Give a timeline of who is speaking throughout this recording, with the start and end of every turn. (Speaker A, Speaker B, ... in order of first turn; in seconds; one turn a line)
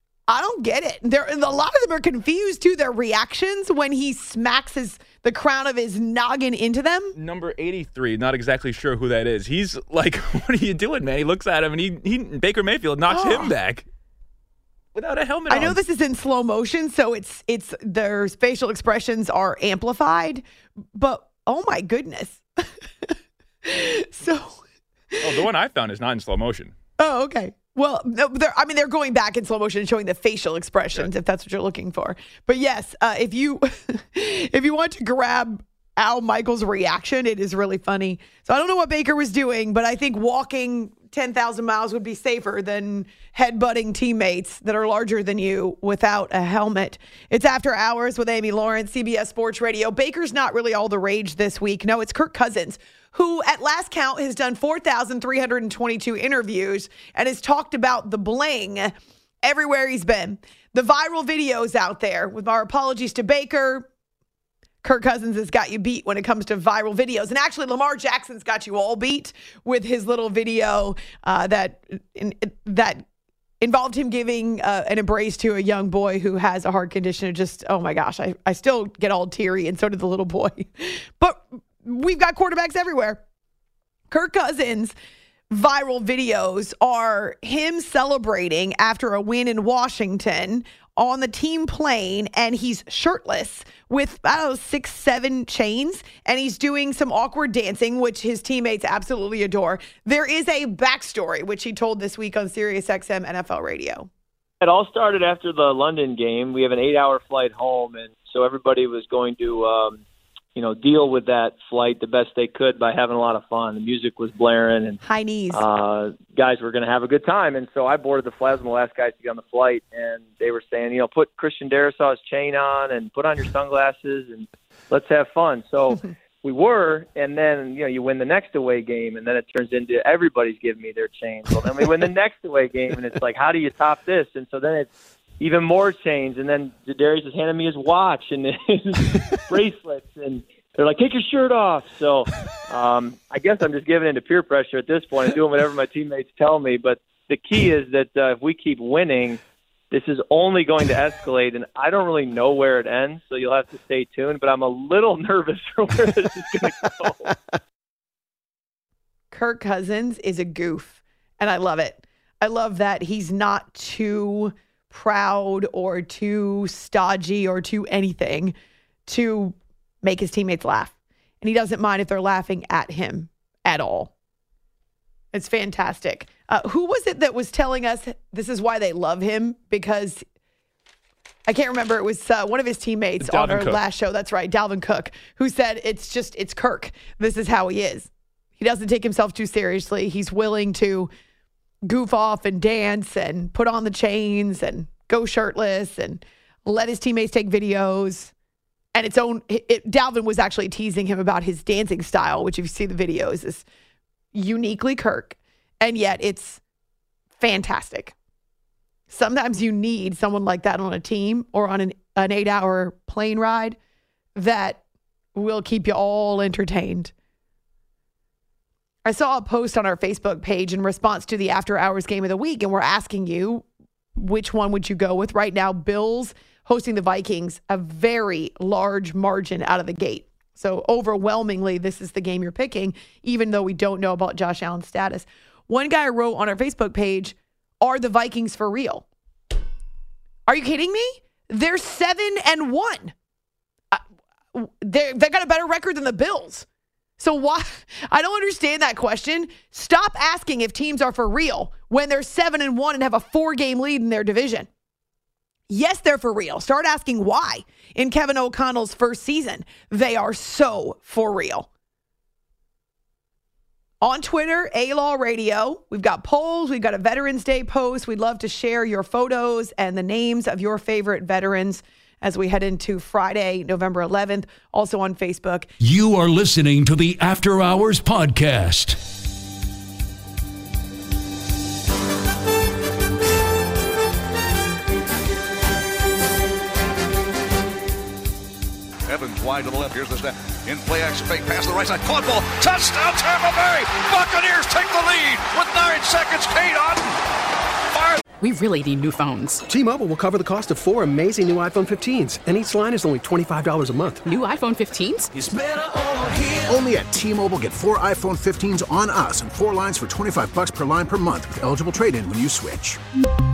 Speaker A: 0.3-7.1
Speaker B: 7.2-13.9
Speaker A: 13.1-13.6
Speaker B: 14.9-15.8
Speaker A: 15.5-20.4
Speaker A: 20.9-22.4
Speaker A: 23.6-24.6
Speaker B: 25.2-26.8
Speaker A: 27.0-63.9
Speaker A: 64.8-73.0
Speaker A: 73.6-83.2
Speaker A: 84.1-84.9
Speaker A: 85.5-104.1
Speaker C: 104.6-110.0
Speaker C: 110.6-115.0
Speaker A: 115.0-115.6
Speaker C: 115.5-134.9
Speaker C: 135.4-149.4
Speaker C: 149.9-157.3
Speaker A: 159.3-168.5
Speaker A: 169.1-174.1
Speaker A: 175.3-180.2
Speaker A: 181.5-191.1
Speaker B: 183.2-183.8
Speaker A: 191.9-198.3
Speaker A: 198.9-203.7
Speaker A: 204.3-206.6
Speaker A: 207.4-208.1
Speaker A: 209.1-213.8
Speaker A: 214.4-214.8
Speaker A: 215.3-217.1
Speaker A: 219.1-223.7
Speaker A: 224.2-239.1
Speaker A: 240.5-243.1
Speaker A: 244.5-246.7
Speaker A: 247.2-254.7
Speaker A: 255.7-261.7
Speaker A: 264.0-275.7
Speaker D: 275.8-279.0
Speaker E: 289.1-297.2
Speaker F: 298.4-299.6
Speaker G: 299.7-304.2
Speaker F: 304.2-305.3
Speaker H: 306.6-313.0